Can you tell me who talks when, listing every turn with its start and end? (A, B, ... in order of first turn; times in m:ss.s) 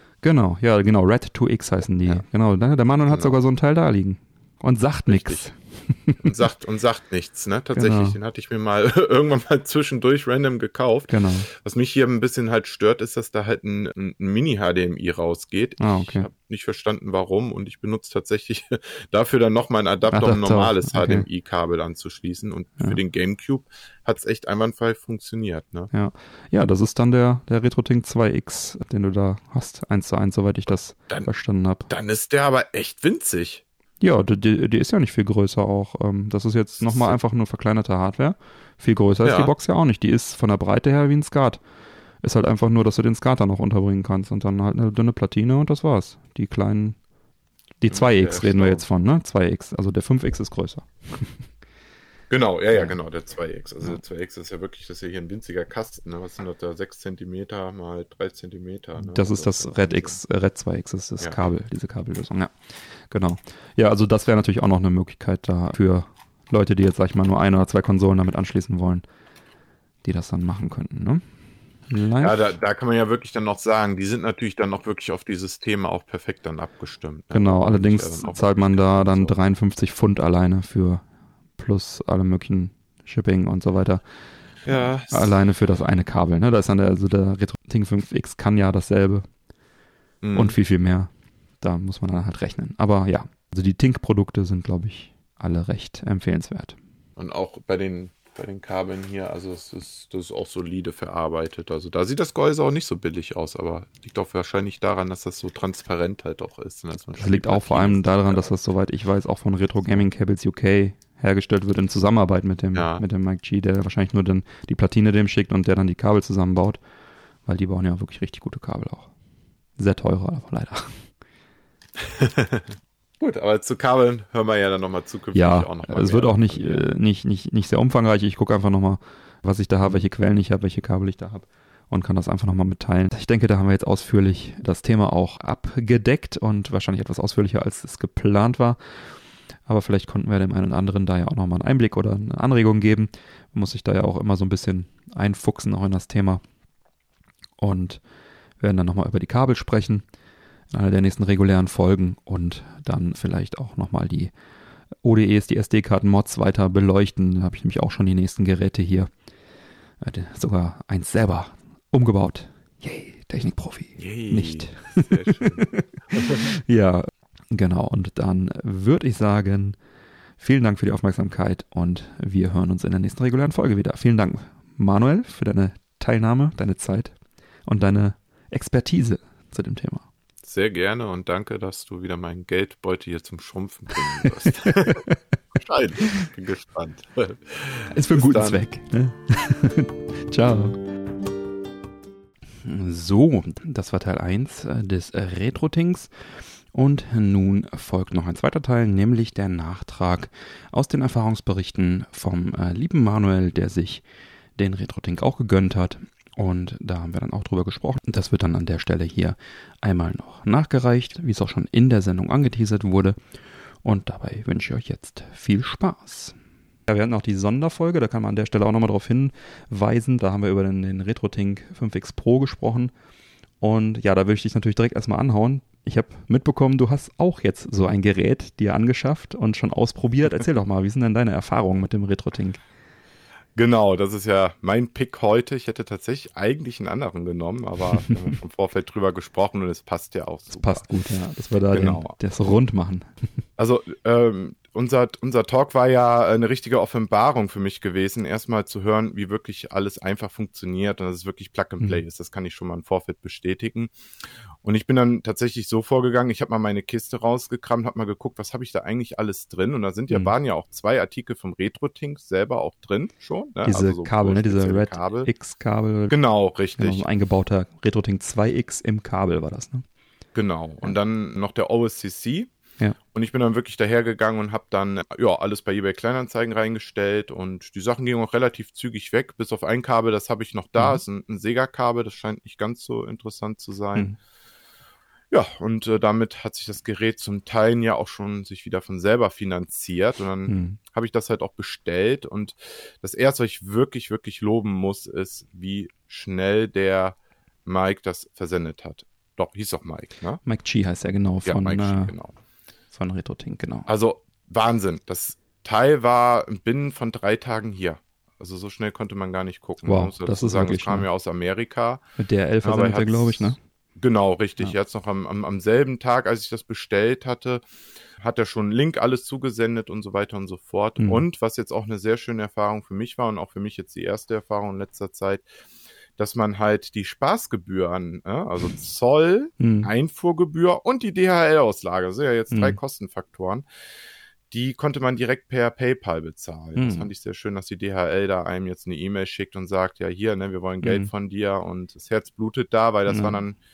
0:00.2-0:06.3 A
0:03.1-0:03.4 B
0:05.1-0:05.5 B
0:06.2-0:25.9 B
0:07.7-0:08.2 A
0:11.1-0:11.5 A
0:15.8-0:16.3 A
0:20.1-0:21.3 A
0:25.9-0:31.9 A
0:31.9-0:33.6 B
0:34.0-0:41.6 A
0:36.8-0:37.2 B
0:39.2-0:39.5 B
0:42.2-0:47.0 A
0:47.8-0:51.4 A
0:47.9-0:48.8 B
0:52.3-1:00.2 B
0:59.0-1:02.6 A
1:03.1-1:09.0 A
1:10.0-1:11.2 A
1:11.9-1:12.4 A
1:12.2-1:19.4 B
1:17.3-1:21.0 A
1:21.6-1:24.0 A
1:24.6-1:25.4 B
1:25.1-1:29.3 A
1:30.2-1:30.6 B
1:30.3-1:36.8 A
1:37.2-1:48.5 B
1:47.2-1:56.8 A
1:52.7-1:53.0 B
1:57.5-1:59.1 A
1:59.8-2:01.1 A
2:02.0-2:06.9 B
2:05.3-2:18.8 A
2:19.7-2:26.4 A
2:27.6-2:28.0 A
2:28.6-2:30.0 A
2:30.7-2:34.3 A
2:35.0-2:39.1 A
2:40.0-2:49.8 A
2:44.0-2:46.4 B
2:50.4-3:00.1 A
3:00.4-3:08.6 B
3:04.7-3:05.2 A
3:07.9-3:10.8 A
3:12.6-3:16.1 A
3:16.7-3:24.0 A
3:24.6-3:33.2 A
3:33.8-3:36.4 A
3:36.9-3:42.9 A
3:43.6-3:52.6 A
3:53.6-4:00.9 B
4:00.5-4:03.1 A
4:01.7-4:02.2 B
4:03.6-4:13.9 B
4:14.6-4:25.3 B
4:23.6-4:26.2 A
4:26.1-4:27.0 B
4:26.8-4:29.8 A
4:30.4-4:32.5 B
4:33.1-4:44.1 B
4:45.3-5:00.4 B
4:50.5-4:50.8 A
5:00.4-5:02.1 A
5:01.4-5:02.3 B
5:02.9-5:03.9 A
5:03.9-5:12.0 B
5:09.8-5:11.1 A
5:12.2-5:13.6 A
5:12.6-5:17.6 B
5:18.2-5:25.5 B
5:21.0-5:21.2 A
5:26.2-5:33.7 B
5:29.6-5:29.9 A
5:32.5-5:32.8 A
5:34.5-5:43.6 B
5:36.8-5:37.1 A
5:40.8-5:41.1 A
5:43.1-5:43.4 A